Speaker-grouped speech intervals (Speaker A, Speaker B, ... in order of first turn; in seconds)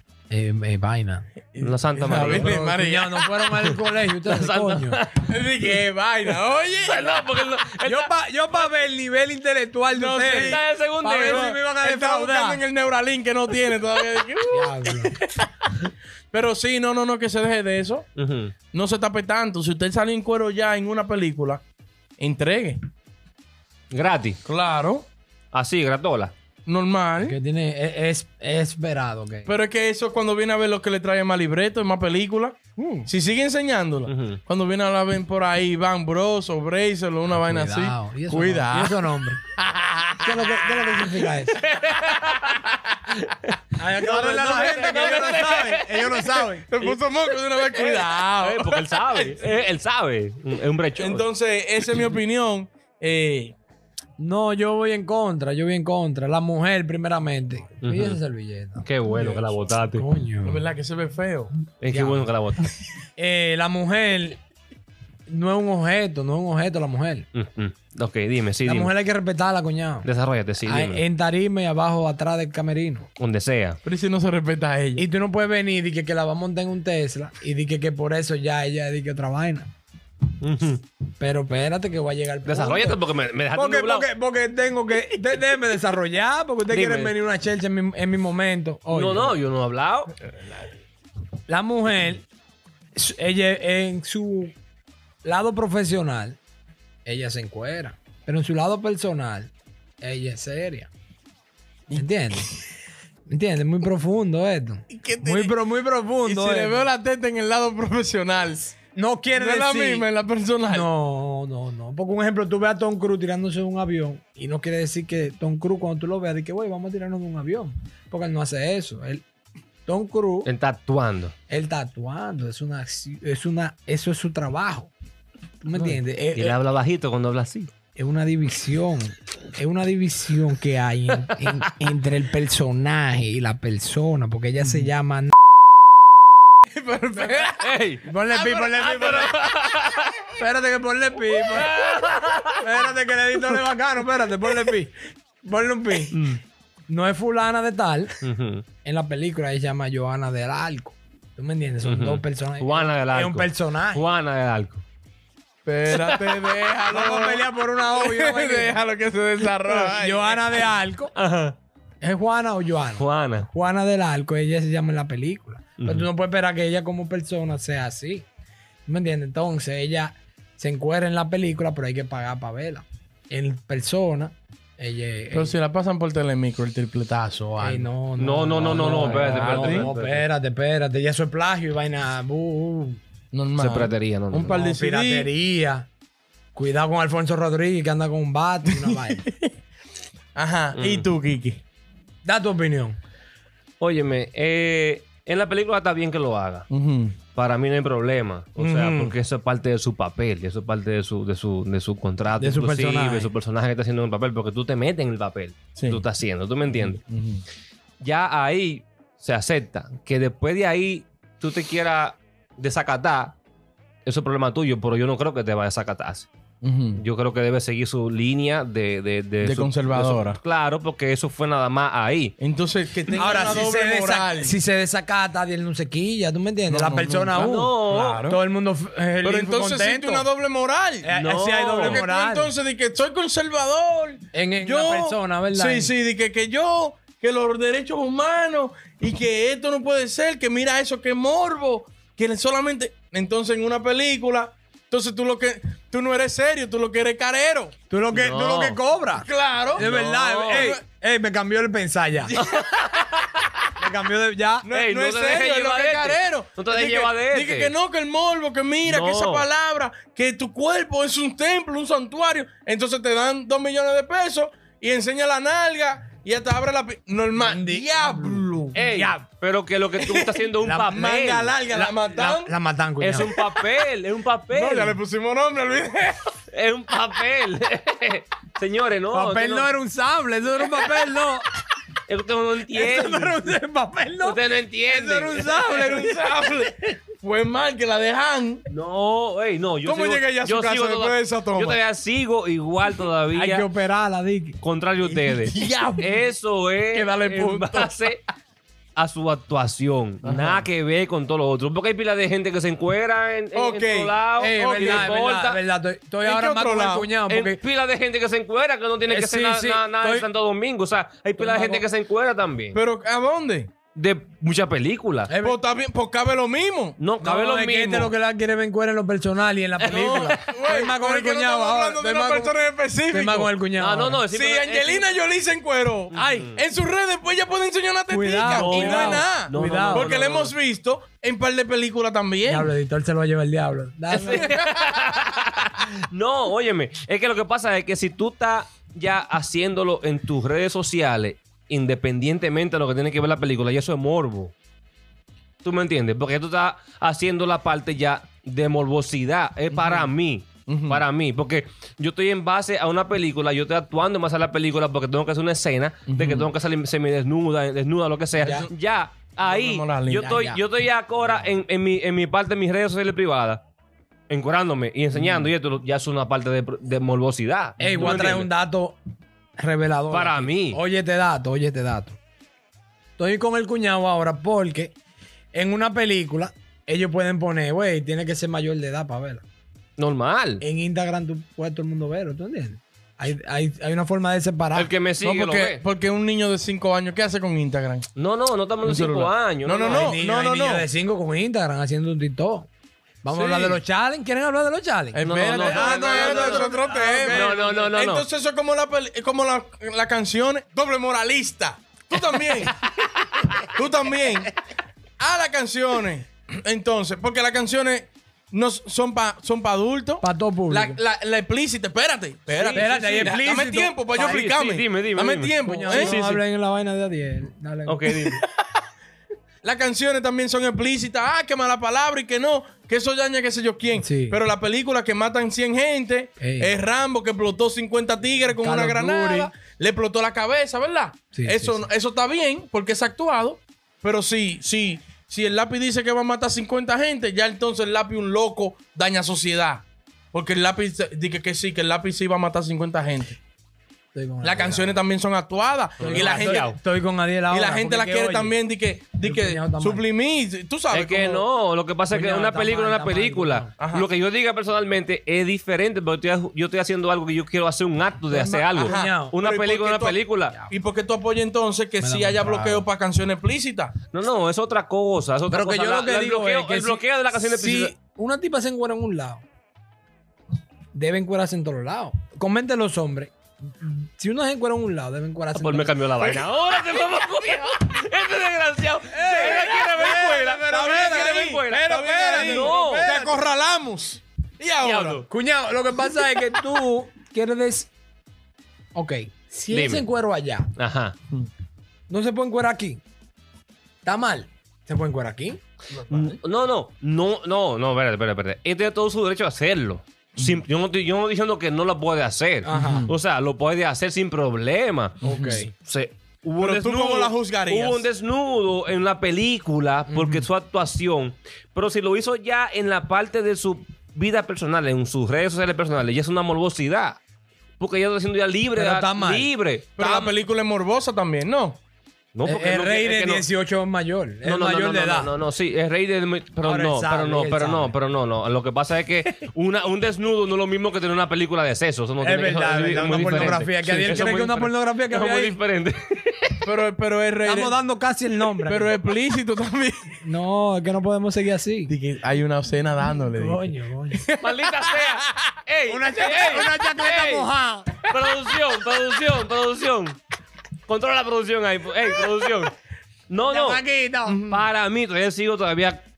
Speaker A: 0.3-1.3, 2.1-5.0, 7.8-12.6, 14.5-15.2, 27.2-29.5, 32.8-33.1, 37.3-39.4, 40.2-41.6, 43.8-46.7, 54.2-58.9, 59.9-60.7, 61.9-62.3, 63.2-64.4, 65.3-67.3, 68.6-70.1, 70.6-73.1, 75.0-79.7, 81.2-89.4, 91.5-92.3, 93.0-94.5, 95.2-96.4, 97.1-100.9, 101.9-102.5, 103.3-106.8, 109.0-110.1, 110.7-119.2, 119.9-120.5, 121.5-124.9, 125.6-126.6, 128.0-135.3, 138.1-139.3, 140.3-141.8, 142.6-146.2, 146.9-148.1, 148.8-154.1, 156.9-158.8, 159.6-161.1, 162.0-168.3, 168.9-175.5, 177.6-183.0, 184.5-185.9, 186.6-189.2, 192.2-193.0, 198.6-199.2, 202.4-203.3, 223.2-230.3, 231.0-232.5, 234.3-235.9, 247.9-252.4, 253.8-254.7, 267.4-269.3, 270.6-273.3, 279.1-281.4, 282.7-286.7, 293.3-294.6, 304.4-307.6, 309.1-310.3, 311.4-311.9, 315.3-315.6, 317.2-322.5, 323.1-324.2, 326.1-326.5, 328.1-330.1, 332.5-334.5, 358.4-358.7, 360.3-360.6, 367.8-369.0, 369.6-372.2, 373.2-374.9, 375.5-379.4, 380.6-384.9, 389.9-392.7, 393.2-397.5, 410.2-411.0, 412.7-413.9, 415.6-418.3, 424.0-424.4, 426.4-426.7, 428.6-429.5, 431.3-431.9, 444.1-445.0, 446.0-448.6, 449.2-450.0, 452.1-453.7, 458.3-459.4, 462.0-462.9, 465.5-469.4, 470.9-476.0, 479.1-483.4, 485.3-487.9, 488.9-490.7, 492.1-493.0, 494.0-495.6, 502.6-503.1, 505.2-505.7, 510.1-510.5, 518.7-519.5, 522.4-525.4, 526.6-527.9, 532.2-535.6, 537.5-538.9, 540.2-541.9, 543.3-544.2, 545.9-548.0, 553.5-554.4
Speaker B: 1.5-3.3, 5.3-7.3, 9.9-15.5, 16.3-18.1, 18.7-21.6, 22.2-22.8, 24.4-25.1, 26.7-27.4, 29.5-39.3, 40.9-41.2, 41.9-42.6, 44.0-45.6, 46.7-49.4, 51.0-53.6, 59.1-59.5, 60.4-61.5, 73.8-75.0, 101.9-102.5, 104.9-105.6, 106.2-108.8, 109.3-110.9, 134.6-134.9, 136.7-137.7, 138.3-138.9, 155.7-160.7, 175.3-177.9, 178.7-179.9, 183.3-185.3, 188.7-189.5, 190.4-191.6, 196.7-197.2, 205.8-206.0, 206.7-207.4, 216.6-217.0, 219.4-220.4, 222.4-224.6, 226.7-228.4, 229.2-231.1, 231.7-247.7, 249.2-249.9, 250.5-250.8, 254.6-268.8, 270.9-272.5, 274.5-276.2, 285.6-288.6, 289.8-291.8, 295.0-296.3, 296.9-298.1, 300.2-300.7, 303.5-305.2, 306.2-307.1, 312.7-313.7, 315.4-317.0, 319.8-323.5, 324.3-332.7, 334.3-335.1, 349.7-350.1, 350.7-351.1, 356.1-356.5, 358.4-358.7, 359.4-360.5, 365.1-365.5, 368.0-368.3, 385.2-388.1, 388.8-390.9, 393.3-393.8, 395.1-402.8, 403.6-404.5, 405.2-416.2, 418.1-418.5, 419.6-443.4, 444.4-446.8, 447.5-451.4, 453.8-454.1, 458.8-463.9, 480.7-485.2, 486.1-486.4, 495.9-496.4, 500.4-500.6, 502.7-503.1, 506.6-508.1, 520.0-521.8, 533.0-534.4, 536.6-537.8, 538.6-540.0, 541.9-545.5, 554.3-554.6
Speaker C: 1.6-2.6, 3.5-5.3, 6.8-8.1, 10.3-11.5, 18.2-18.5, 23.9-24.4, 25.5-26.3, 34.1-34.4, 40.5-43.5, 44.1-47.0, 47.6-51.2, 57.8-58.2, 58.8-60.1, 61.8-62.7, 67.3-68.9, 70.0-71.0, 73.2-73.8, 80.4-80.8, 82.5-84.1, 86.7-87.2, 88.9-90.1, 120.5-121.3, 126.3-127.7, 137.6-138.1, 138.8-140.3, 141.6-142.6, 146.1-146.4, 148.2-148.7, 151.8-154.8, 155.9-156.2, 161.2-161.6, 163.0-163.5, 165.8-166.1, 178.2-180.2, 183.6-184.6, 190.8-191.1, 193.8-196.7, 197.3-207.0, 208.0-213.4, 214.1-216.3, 217.0-222.3, 227.3-228.1, 231.1-232.1, 248.1-248.8, 249.8-250.8, 252.3-253.4, 254.7-257.7, 258.9-259.4, 268.7-271.5, 273.0-274.9, 276.5-279.7, 282.1-283.4, 284.2-285.6, 288.7-293.7, 294.6-298.2, 299.0-305.6, 307.3-312.8, 313.9-315.3, 317.0-318.1, 319.8-320.5, 323.8-325.1, 326.1-326.6, 328.4-330.5, 334.1-344.5, 345.6-363.6, 364.3-368.5, 370.1-370.8, 380.0-380.6, 384.7-385.8, 388.2-390.2, 395.2-396.7, 397.2-398.2, 412.5-413.4, 414.1-416.4, 417.9-418.4, 446.0-446.8, 450.9-460.6, 464.1-467.9, 475.5-483.1, 484.8-485.3, 489.7-490.1, 490.8-491.2, 496.1-517.2, 517.8-520.3, 522.3-523.5, 524.4-536.6, 544.4-547.5, 548.1-550.2, 550.9-552.7, 553.3-553.8, 554.5-556.0